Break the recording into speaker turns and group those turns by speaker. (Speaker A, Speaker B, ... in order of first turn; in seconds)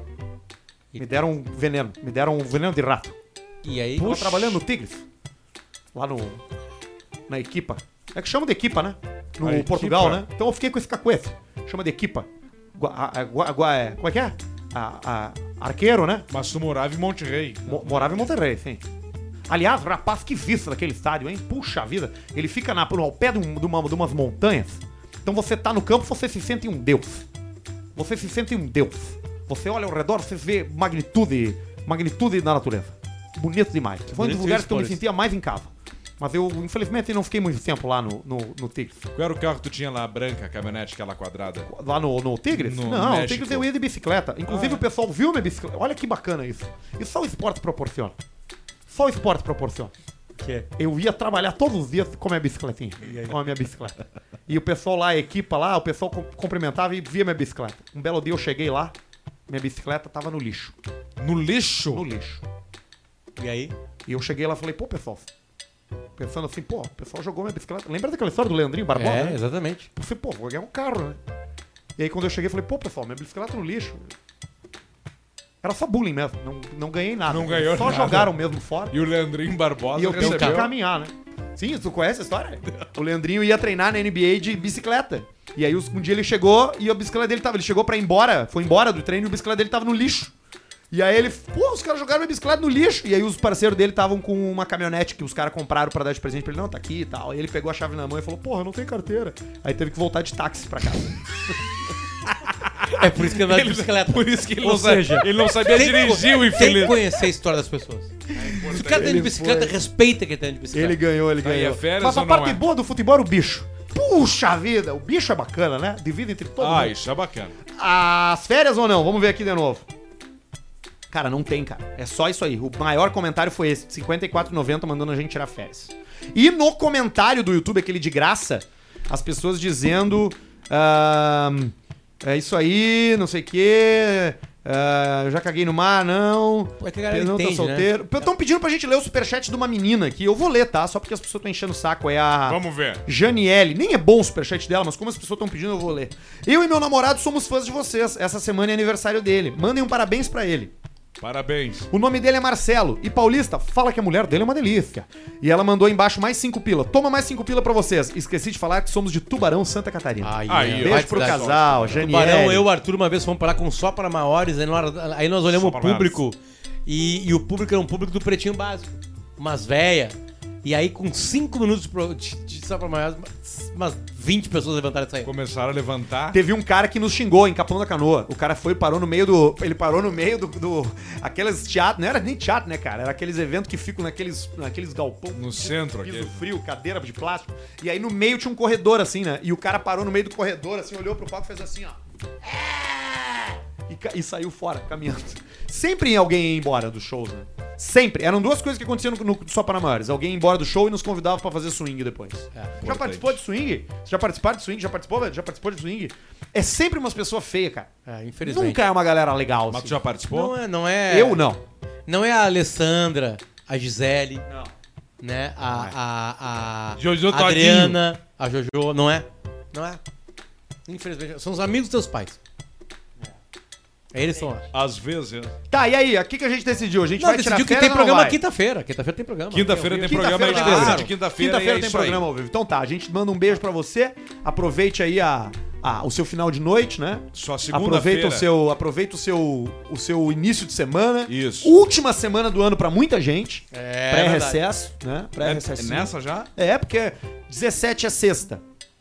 Speaker A: 0.9-1.2, 3.6-4.5, 34.1-35.0, 50.4-50.7, 53.0-53.4, 63.4-63.8, 68.9-69.9, 80.2-80.7, 102.9-111.0, 136.8-138.0, 160.2-175.3, 208.1-208.8, 210.3-211.4, 212.1-214.5, 215.2-220.0, 220.9-222.4, 224.1-224.7, 227.2-231.1, 243.7-244.6
Speaker B: 1.0-3.2, 4.0-5.0, 5.9-6.4, 7.3-16.3, 17.7-18.8, 19.5-27.3, 27.9-39.1, 41.7-48.2, 48.9-49.9, 50.8-59.0, 59.5-60.8, 61.9-62.4, 64.1-65.3, 66.2-69.4, 69.9-71.2, 72.0-74.1, 75.6-79.0, 79.9-90.3, 90.9-101.2, 108.5-109.8, 110.7-117.0, 117.8-119.9, 121.1-150.7, 151.9-162.7, 176.3-207.9, 208.4-210.0, 211.1-211.6, 214.5-214.7, 215.7-216.0, 225.7-228.4, 230.0-248.6
Speaker C: 4.1-4.4, 9.4-10.2, 16.3-18.3, 39.1-41.7, 42.5-43.7, 44.5-44.8, 61.2-62.1, 77.3-80.7, 102.3-107.2, 108.3-109.3, 111.4-112.6, 116.6-117.6, 142.5-143.0, 151.2-151.9, 160.5-162.1, 165.5-166.2, 175.2-176.4, 185.3-186.4, 202.8-203.4, 209.7-210.6, 217.0-218.0, 224.7-225.6, 229.5-232.2, 237.3-238.5, 241.3-241.8, 245.4-246.5